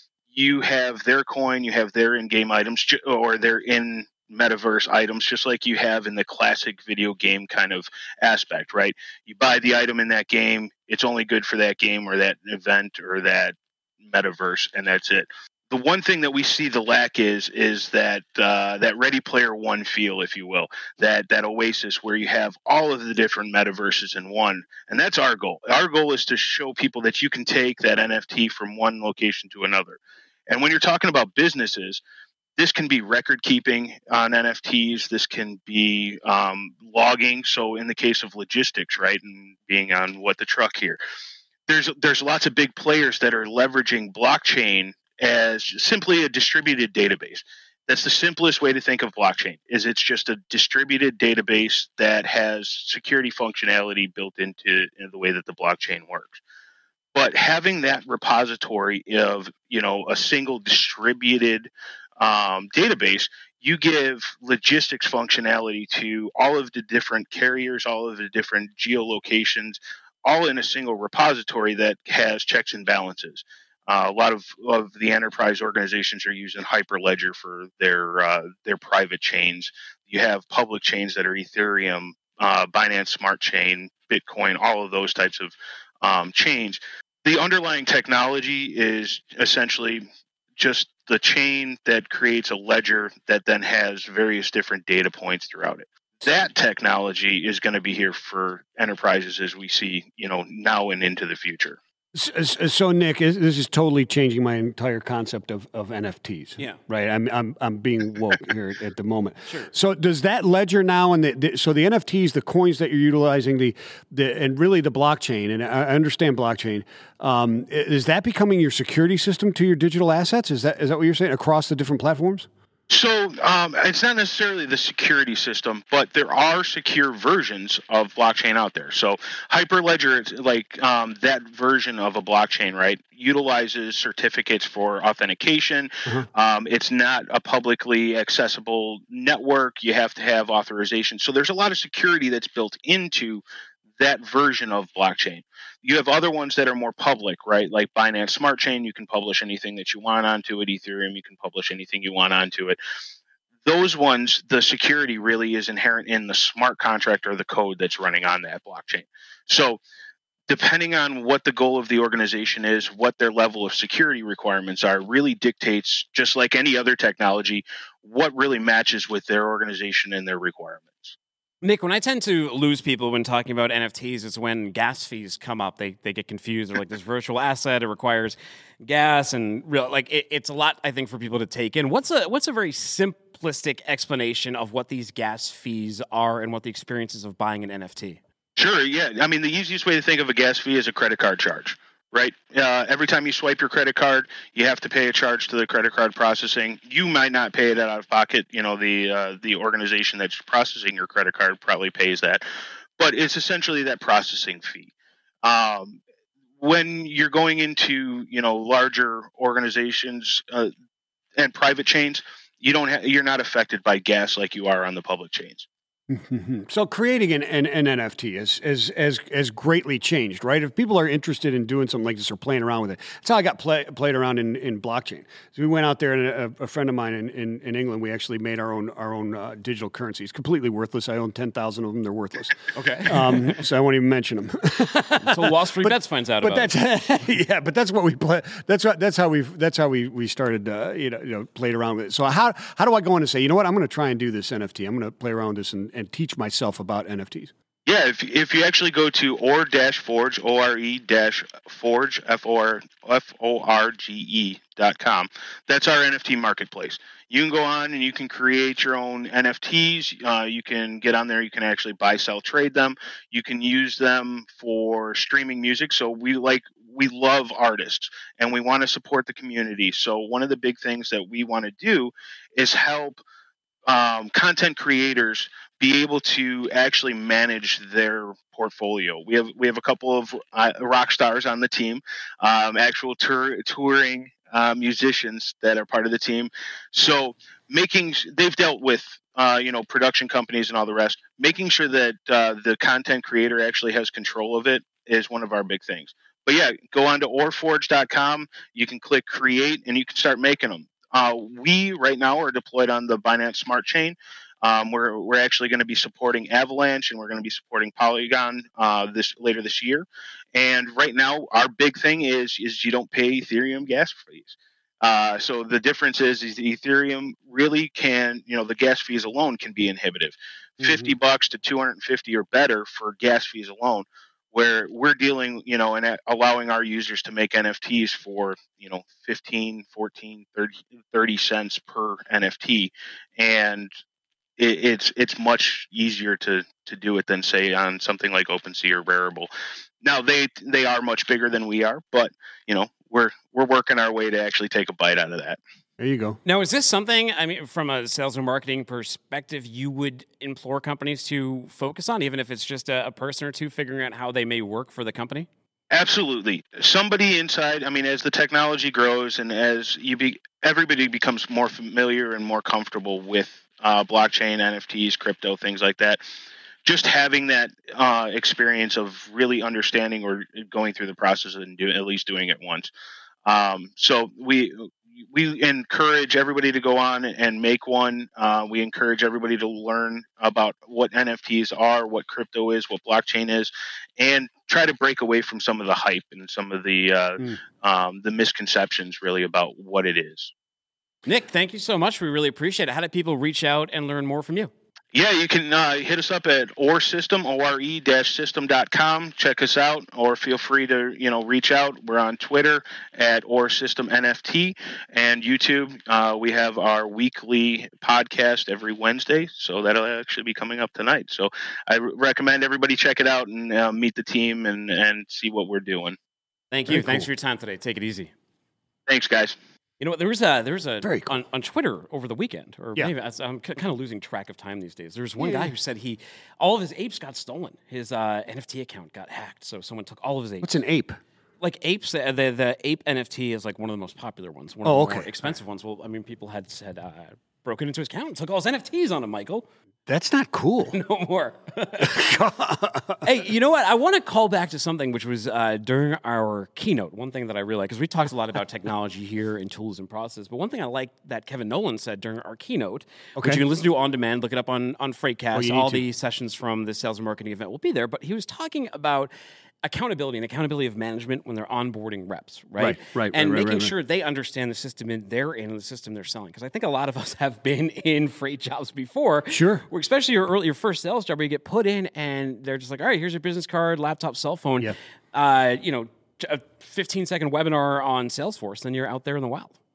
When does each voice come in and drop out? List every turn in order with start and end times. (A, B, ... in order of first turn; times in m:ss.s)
0:00.3-0:32.0 A
0:32.6-0:41.0 A
0:41.7-0:56.4 A
0:57.1-1:41.8 A
1:42.1-2:02.5 B
2:02.9-2:23.4 A
2:24.0-2:32.8 A
2:33.6-2:39.8 A
2:40.5-2:51.2 A
2:51.6-3:08.2 C
3:08.6-3:22.4 A
3:23.0-3:24.9 A
3:25.4-3:26.0 A
3:26.6-3:30.7 A
3:31.4-3:35.7 A
3:36.1-4:07.5 B
3:52.7-3:53.6 C
3:54.9-3:56.7 C
4:07.8-4:33.2 A
4:33.8-5:33.9 A
5:20.8-5:21.1 B
5:34.6-5:39.5 A
5:40.0-5:45.6 A
5:46.0-5:46.4 B
5:46.4-5:55.5 C
5:55.9-6:06.2 A
6:06.8-6:12.9 A
6:13.4-6:30.5 A
6:31.2-6:34.7 C
6:35.1-6:56.2 A
6:56.7-6:58.3 C
6:56.9-6:57.3 B
6:59.1-6:59.6 A
7:00.0-7:10.7 C
7:01.0-7:01.3 B
7:05.4-7:05.7 B
7:10.6-7:11.2 B
7:11.6-7:19.6 C
7:14.8-7:15.5 B
7:20.1-7:21.0 B
7:20.9-7:22.2 C
7:22.0-7:23.2 B
7:23.2-7:39.3 C
7:33.4-7:33.6 B
7:35.5-7:36.0 B
7:39.8-7:59.7 C
7:42.8-7:43.9 B
7:49.5-7:49.8 B